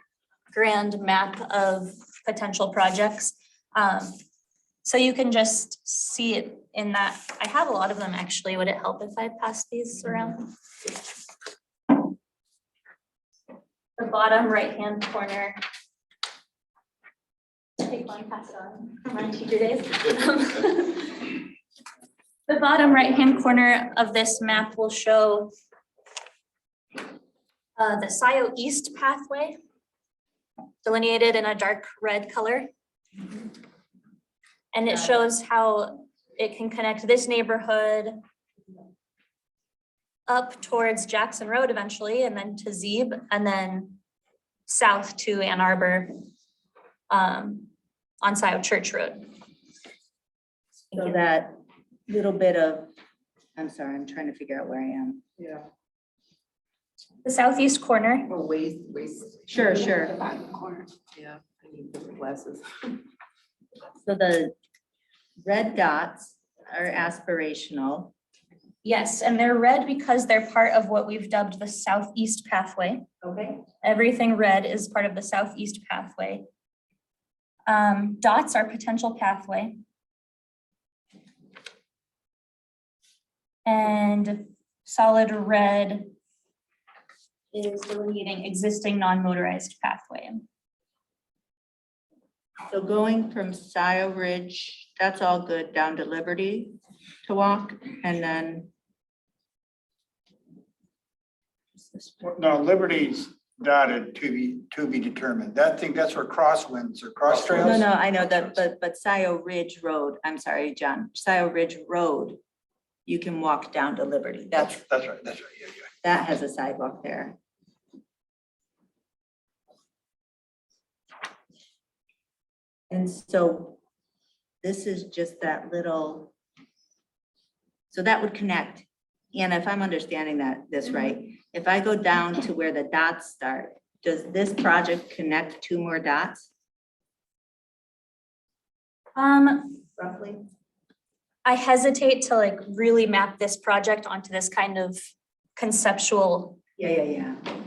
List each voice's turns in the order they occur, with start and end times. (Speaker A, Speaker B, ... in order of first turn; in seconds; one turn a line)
Speaker A: 0.5-4.2
Speaker A: 4.8-10.5
Speaker A: 14.0-15.6
Speaker A: 17.8-21.5
Speaker A: 22.5-25.5
Speaker A: 27.8-29.6
Speaker A: 30.8-32.7
Speaker A: 34.7-38.2
Speaker A: 40.3-44.0
Speaker A: 44.7-46.2
Speaker A: 47.1-47.7
Speaker A: 48.2-49.3
Speaker B: 50.9-51.5
Speaker B: 52.1-52.9
Speaker B: 53.6-55.2
Speaker A: 57.2-58.3
Speaker C: 58.3-62.7
Speaker B: 59.5-60.1
Speaker B: 64.0-64.5
Speaker B: 65.4-68.1
Speaker A: 68.8-73.1
Speaker B: 73.2-73.6
Speaker A: 73.8-76.5
Speaker A: 77.7-79.8
Speaker A: 83.7-86.1
Speaker A: 87.5-90.5
Speaker B: 92.7-98.7
Speaker D: 102.2-107.8
Speaker B: 107.6-112.4
Speaker B: 113.1-114.8
Speaker D: 114.7-115.9
Speaker B: 116.0-117.4
Speaker B: 122.9-123.8
Speaker B: 124.6-126.3
Speaker B: 127.9-136.5
Speaker A: 139.2-139.9
Speaker B: 140.0-140.4
Speaker A: 141.4-145.0
Speaker A: 145.6-146.6
Speaker B: 146.8-147.4